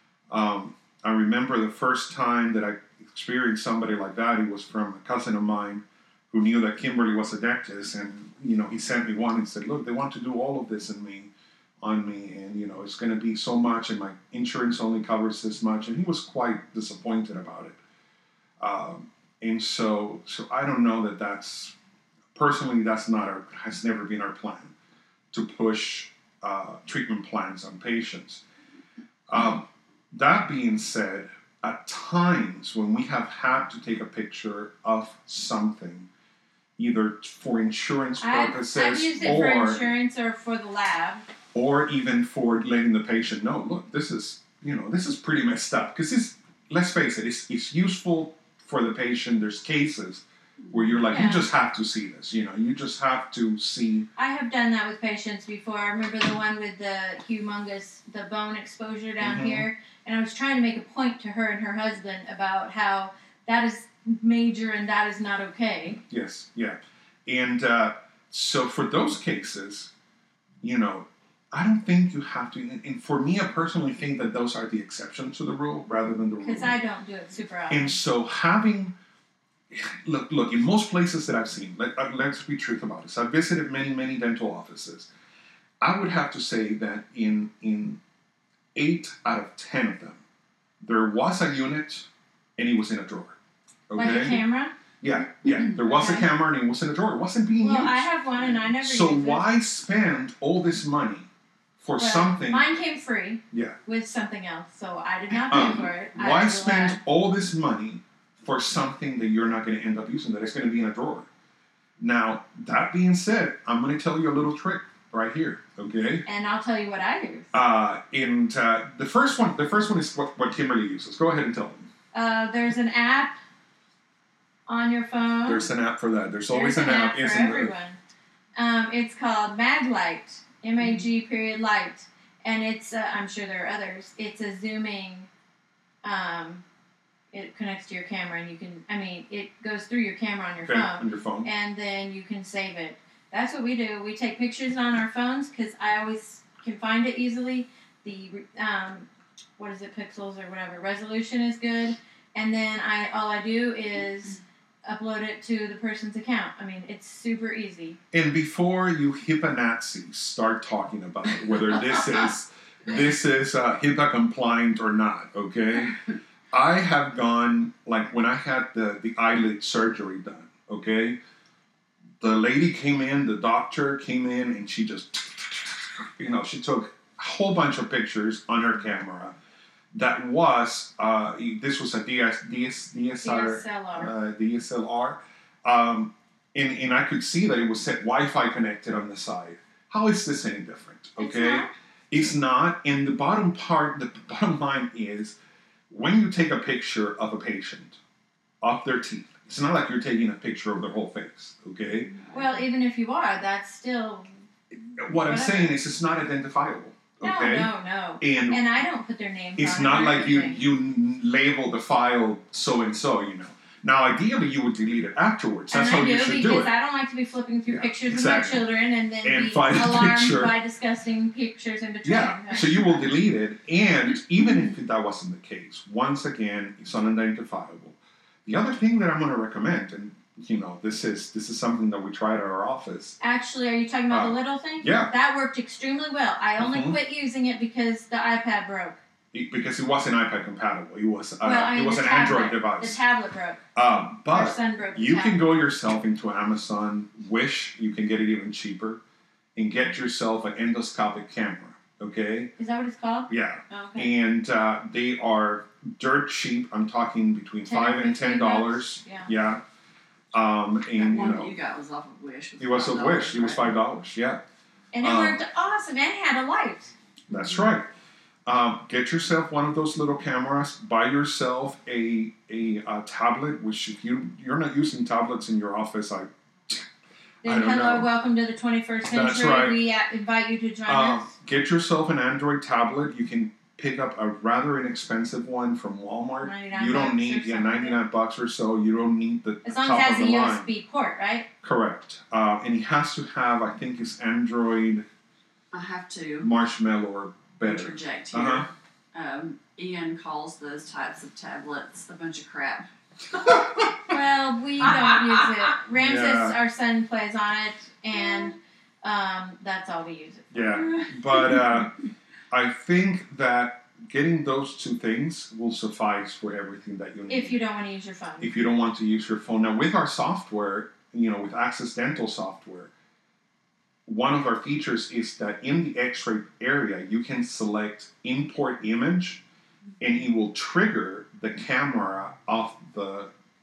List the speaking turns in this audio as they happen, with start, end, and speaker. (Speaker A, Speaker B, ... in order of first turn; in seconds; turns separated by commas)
Speaker A: 0.3-17.8, Speaker A: 18.6-21.7, Speaker A: 22.4-24.7, Speaker A: 25.3-28.4, Speaker A: 29.3-36.1, Speaker A: 36.8-39.8, Speaker B: 38.2-41.2, Speaker A: 41.5-54.1, Speaker B: 51.1-51.5, Speaker B: 54.2-66.0, Speaker A: 59.2-59.7, Speaker A: 66.1-69.9, Speaker A: 70.6-76.8, Speaker B: 76.4-78.0, Speaker A: 77.7-78.9, Speaker A: 79.7-85.1, Speaker A: 85.8-88.0, Speaker A: 88.8-90.2, Speaker A: 90.8-93.4, Speaker A: 93.9-94.4, Speaker B: 94.0-94.7, Speaker A: 95.0-98.1, Speaker B: 95.8-96.3, Speaker B: 97.6-99.5, Speaker A: 98.7-101.3, Speaker A: 101.8-102.7, Speaker B: 102.0-107.0, Speaker A: 105.5-111.3, Speaker A: 112.0-116.2, Speaker B: 116.3-117.5, Speaker A: 117.5-121.9, Speaker B: 122.1-123.4, Speaker B: 124.7-125.7, Speaker A: 125.5-127.7, Speaker B: 126.5-128.0, Speaker B: 128.6-135.3, Speaker B: 136.0-136.6, Speaker B: 137.3-149.1, Speaker A: 140.6-141.5, Speaker B: 149.6-158.0, Speaker A: 158.1-166.0, Speaker A: 166.5-171.2, Speaker A: 172.2-179.3, Speaker A: 179.9-195.4, Speaker B: 183.2-184.1, Speaker B: 191.2-191.7, Speaker A: 195.9-198.0, Speaker A: 198.6-202.1, Speaker C: 202.1-202.5, Speaker B: 202.3-204.3, Speaker A: 205.0-207.7, Speaker B: 205.2-205.7, Speaker B: 207.2-210.6, Speaker A: 208.2-208.6, Speaker A: 209.6-216.7, Speaker B: 215.7-223.0, Speaker A: 217.7-218.7, Speaker A: 219.2-220.5, Speaker A: 222.1-233.2, Speaker B: 233.2-239.0, Speaker A: 234.1-235.1, Speaker A: 236.6-237.0, Speaker A: 239.3-243.0, Speaker B: 241.4-243.6, Speaker A: 243.8-249.0, Speaker B: 244.3-245.5, Speaker A: 249.6-252.5, Speaker B: 252.6-254.1, Speaker A: 253.3-259.6, Speaker B: 257.7-259.3, Speaker A: 260.3-261.5, Speaker C: 260.9-263.7, Speaker A: 262.6-264.4, Speaker B: 264.9-266.9, Speaker A: 265.0-265.4, Speaker A: 267.3-267.9, Speaker A: 268.5-276.9, Speaker A: 277.4-278.1, Speaker B: 277.4-281.3, Speaker A: 279.1-279.8, Speaker A: 280.9-290.7, Speaker B: 286.4-288.0, Speaker B: 289.6-291.5, Speaker A: 291.6-295.1, Speaker C: 295.7-296.5, Speaker A: 296.4-298.7, Speaker C: 297.6-302.9, Speaker A: 303.5-303.9, Speaker B: 304.1-310.8, Speaker C: 304.8-305.7, Speaker A: 305.9-306.6, Speaker A: 310.5-311.9, Speaker C: 310.6-311.6, Speaker A: 312.5-317.6, Speaker B: 317.3-318.5, Speaker A: 318.4-322.9, Speaker A: 324.1-329.4, Speaker A: 330.0-333.3